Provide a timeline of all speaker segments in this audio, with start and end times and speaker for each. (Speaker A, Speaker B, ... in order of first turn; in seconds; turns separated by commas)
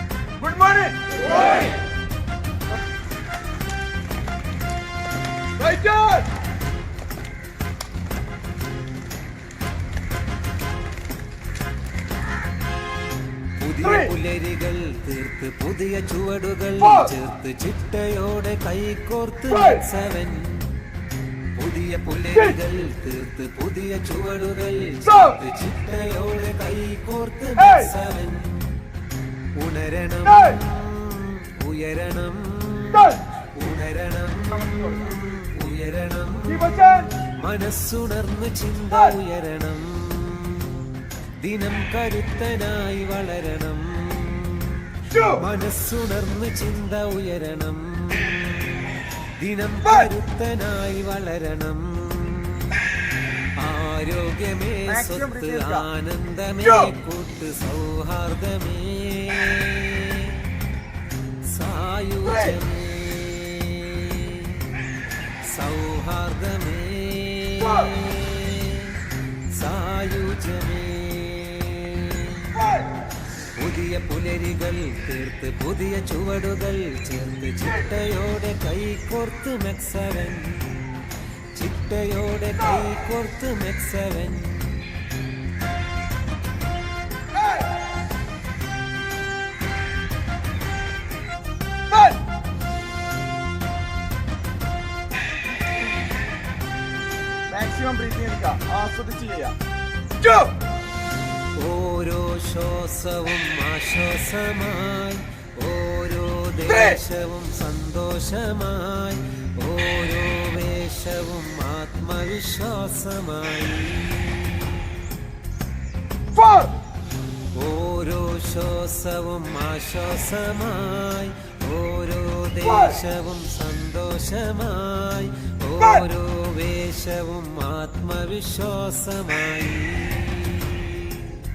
Speaker A: 0.4-1.7, Speaker A: 5.6-6.2, Speaker B: 13.6-20.7, Speaker A: 13.8-14.1, Speaker B: 21.6-28.7, Speaker B: 29.5-52.8, Speaker A: 34.6-35.2, Speaker A: 36.5-37.1, Speaker A: 45.1-45.4, Speaker B: 53.6-60.4, Speaker A: 54.9-55.9, Speaker B: 61.5-64.9, Speaker B: 65.5-72.8, Speaker B: 73.5-81.0, Speaker B: 81.5-85.0, Speaker A: 91.9-92.2, Speaker A: 97.5-99.5, Speaker A: 100.2-100.5, Speaker B: 101.5-114.9, Speaker A: 106.7-107.0, Speaker A: 116.3-116.7, Speaker B: 117.5-131.3